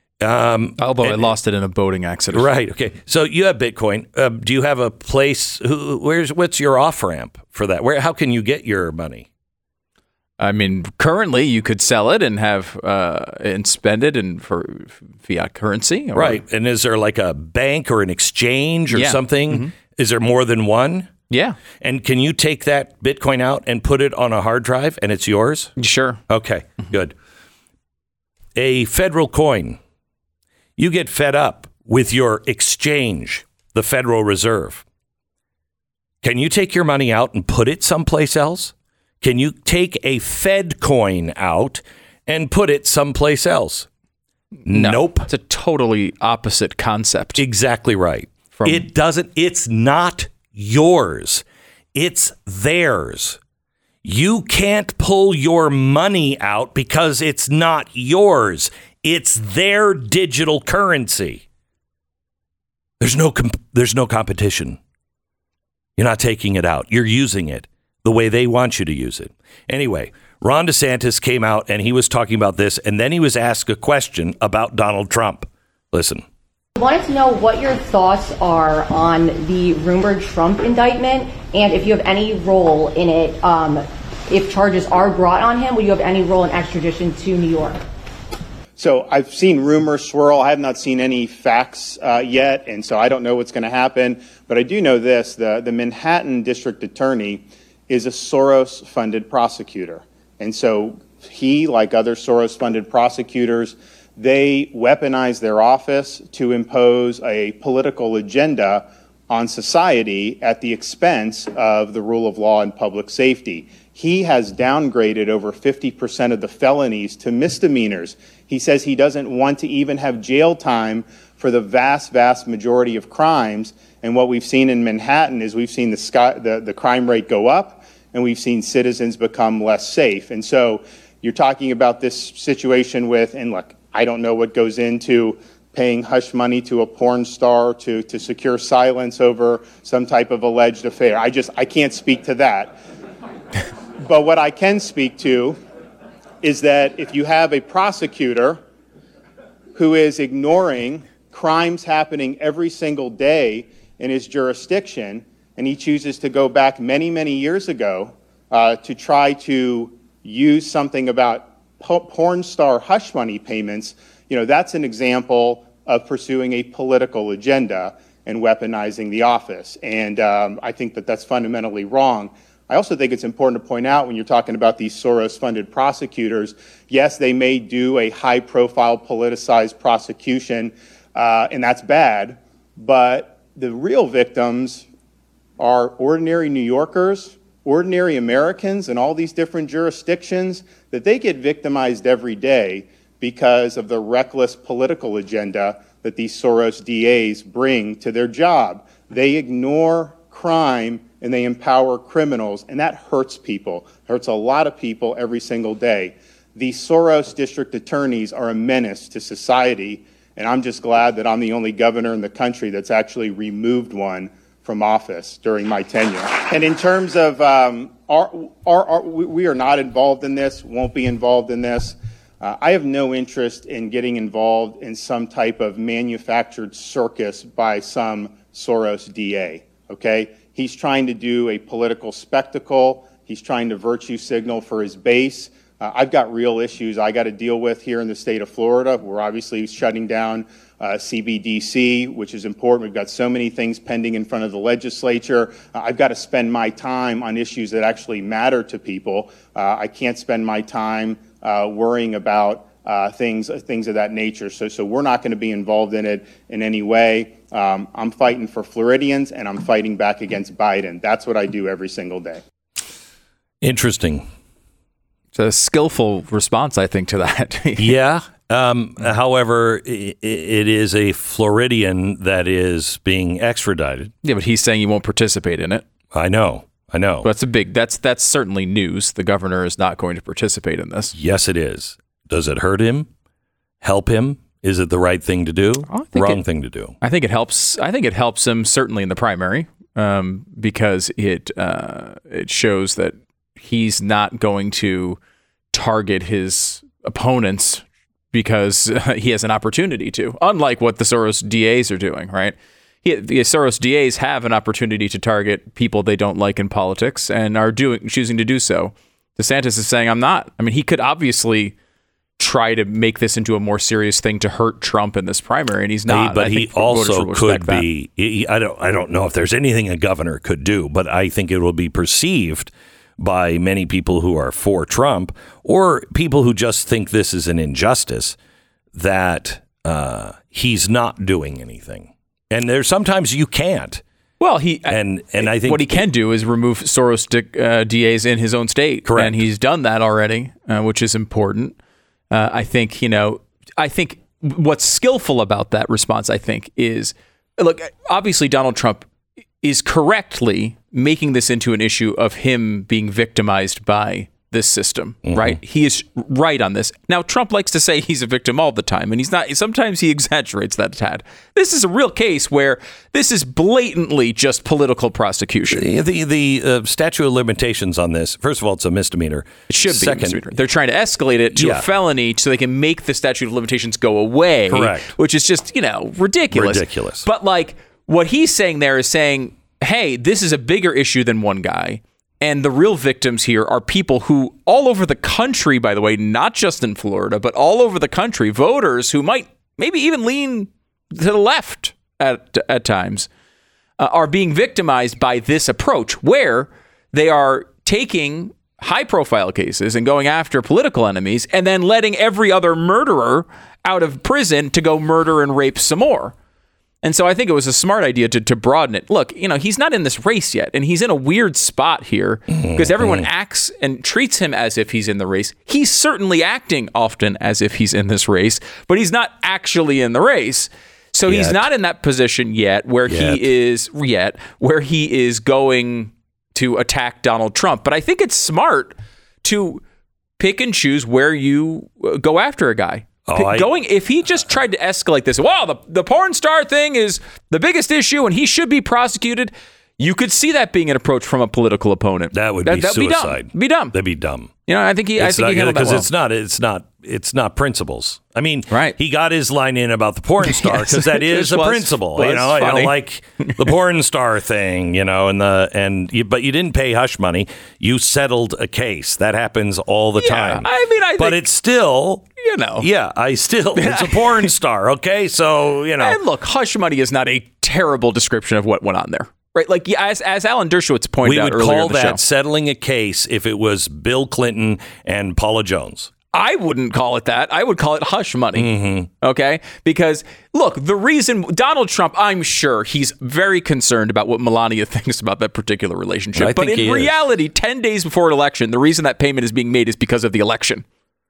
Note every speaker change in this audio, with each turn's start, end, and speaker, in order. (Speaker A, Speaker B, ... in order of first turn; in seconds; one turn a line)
Speaker A: 0.2-1.3
Speaker B: 0.8-2.5
Speaker A: 2.3-9.3
Speaker B: 10.4-16.4
Speaker A: 16.1-21.1
Speaker B: 18.9-19.7
Speaker B: 21.3-21.6
Speaker A: 21.8-25.7
Speaker B: 25.8-26.2
Speaker A: 26.3-27.1
Speaker A: 28.6-29.8
Speaker A: 30.8-34.8
Speaker A: 36.2-43.9
Speaker B: 44.6-47.4
Speaker A: 44.6-45.3
Speaker A: 47.4-53.4
Speaker B: 48.5-48.9
Speaker A: 54.0-61.4
Speaker A: 63.0-64.8
Speaker A: 66.0-76.2
Speaker C: 76.7-87.8
Speaker D: 88.8-142.8
Speaker D: 144.0-145.6
Speaker D: 146.4-148.6
Speaker D: 149.7-184.8
Speaker D: 185.6-262.4
Speaker A: 263.6-264.3
Speaker B: 265.3-267.9
Speaker A: 267.8-274.1
Speaker B: 274.2-275.8
Speaker A: 276.1-277.3
Speaker B: 277.2-281.1
Speaker A: 281.1-283.1
Speaker A: 283.8-286.9
Speaker B: 285.9-286.4
Speaker B: 287.0-295.2
Speaker B: 295.7-311.7
Speaker B: 312.4-317.9
Speaker A: 316.1-328.4
Speaker A: 328.9-334.0
Speaker B: 334.4-341.8
Speaker A: 334.9-336.1
Speaker A: 339.0-339.4
Speaker B: 342.3-349.1
Speaker B: 349.6-365.9
Speaker A: 355.2-355.6
Speaker A: 365.7-370.4
Speaker B: 369.7-393.3
Speaker A: 371.5-371.8
Speaker A: 374.7-375.1
Speaker A: 376.5-377.2
Speaker B: 394.0-406.3
Speaker B: 407.0-429.8
Speaker A: 412.5-413.2
Speaker A: 421.3-421.6
Speaker A: 423.1-423.5
Speaker B: 430.4-443.9
Speaker A: 433.2-433.7
Speaker A: 442.3-444.5
Speaker B: 444.6-446.1
Speaker A: 445.2-462.2
Speaker B: 448.7-448.9
Speaker B: 450.4-453.7
Speaker B: 460.2-461.4
Speaker B: 462.4-462.9
Speaker A: 462.8-466.2
Speaker B: 463.8-464.5
Speaker B: 466.0-472.2
Speaker A: 471.2-476.1
Speaker B: 476.3-490.8
Speaker A: 478.6-479.1
Speaker A: 486.4-487.1